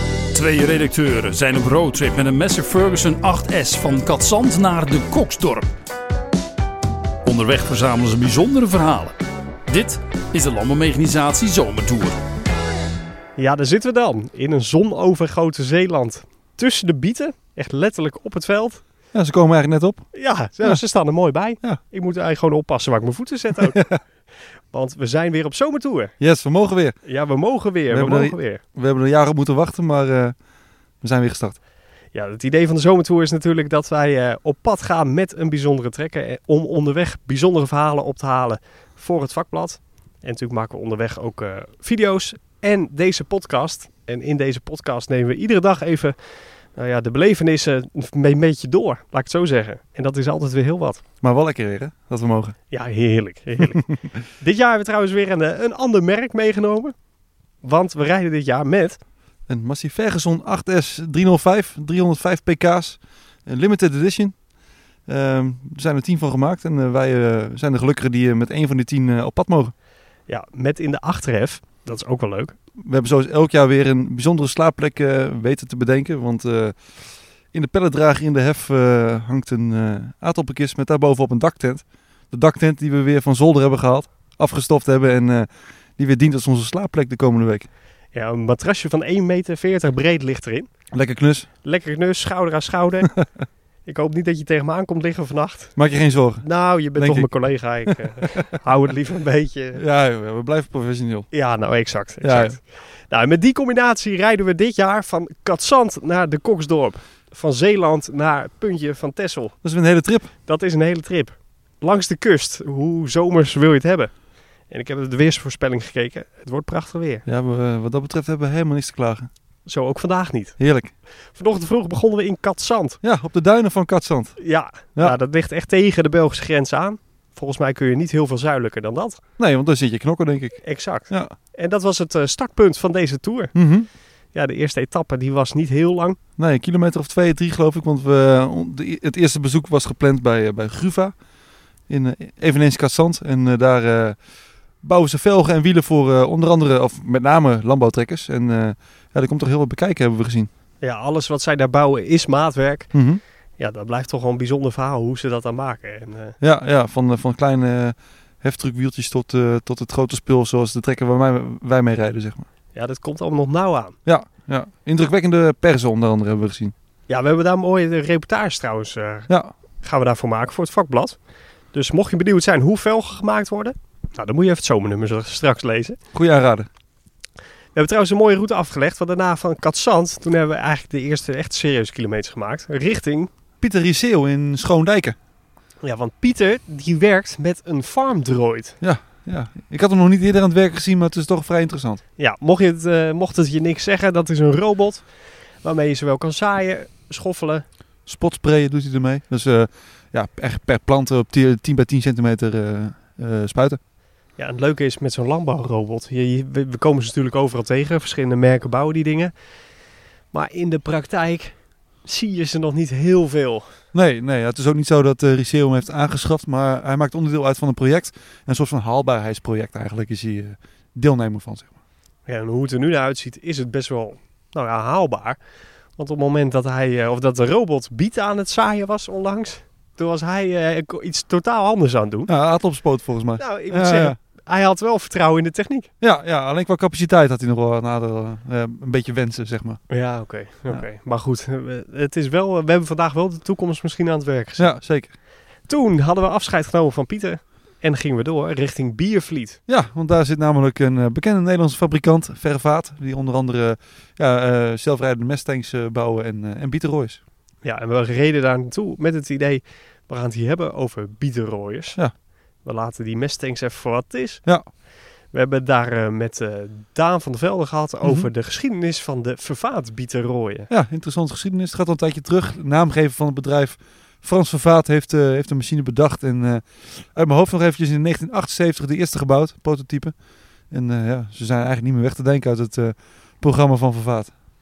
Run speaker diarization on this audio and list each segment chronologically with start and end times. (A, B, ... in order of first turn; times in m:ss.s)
0:00.3-0:05.7 A
0:07.2-0:09.2 A
0:09.7-0:12.2 A
0:13.4-0:18.8 B
0:19.1-0:20.1 C
0:20.1-0:23.8 B
0:24.7-0:26.1 B
0:26.2-0:27.0 C
0:27.1-0:28.6 B
0:27.9-0:30.4 C
0:31.0-0:31.6 C
0:32.1-0:46.2 B
0:46.8-0:51.0 B
0:51.2-0:52.6 C
0:52.7-0:56.9 B
0:57.6-0:59.0 B
0:59.5-1:04.4 C
1:05.1-1:09.7 C
1:10.3-1:12.6 B
1:12.8-1:16.8 C
1:17.5-1:27.7 C
1:28.1-1:30.7 B
1:30.9-1:31.5 C
1:31.6-1:33.1 B
1:33.8-1:35.7 B
1:35.8-1:37.3 C
1:36.4-1:39.8 B
1:39.7-1:41.3 C
1:41.3-1:49.6 B
1:42.2-1:42.6 C
1:49.6-1:50.3 C
1:50.4-1:54.1 B
1:54.7-1:57.2 B
1:57.3-1:59.3 C
1:59.7-2:00.6 B
2:00.6-2:00.9 C
2:01.3-2:03.0 B
2:03.0-2:04.4 C
2:04.4-2:09.2 B
2:09.4-2:11.3 C
2:10.6-2:13.5 B
2:13.6-2:13.9 C
2:14.3-2:16.2 B
2:16.4-2:21.1 C
2:21.9-2:24.2 C
2:24.8-2:30.5 C
2:30.8-2:32.9 B
2:32.9-2:33.2 C
2:33.6-2:36.4 B
2:36.4-2:42.5 C
2:42.8-2:44.0 B
2:44.0-2:46.7 C
2:47.1-2:49.3 B
2:49.8-2:51.2 B
2:51.7-2:56.0 B
2:56.1-2:56.7 C
2:57.7-3:03.3 B
3:03.6-3:05.2 C
3:05.8-3:08.8 B
3:08.8-3:12.0 C
3:12.2-3:15.0 B
3:15.6-3:17.6 B
3:18.1-3:23.8 C
3:24.4-3:29.3 B
3:30.3-3:33.7 B
3:33.9-3:41.7 C
3:42.3-3:45.4 B
3:46.0-3:52.3 B
3:52.3-3:54.2 C
3:53.4-3:55.9 B
3:56.0-3:59.9 C
3:59.9-4:04.8 B
4:04.6-4:05.1 C
4:05.7-4:09.6 B
4:09.7-4:17.2 C
4:17.6-4:22.0 B
4:22.6-4:24.4 B
4:25.3-4:30.7 B
4:28.0-4:28.3 C
4:30.7-4:40.1 C
4:40.7-4:44.3 C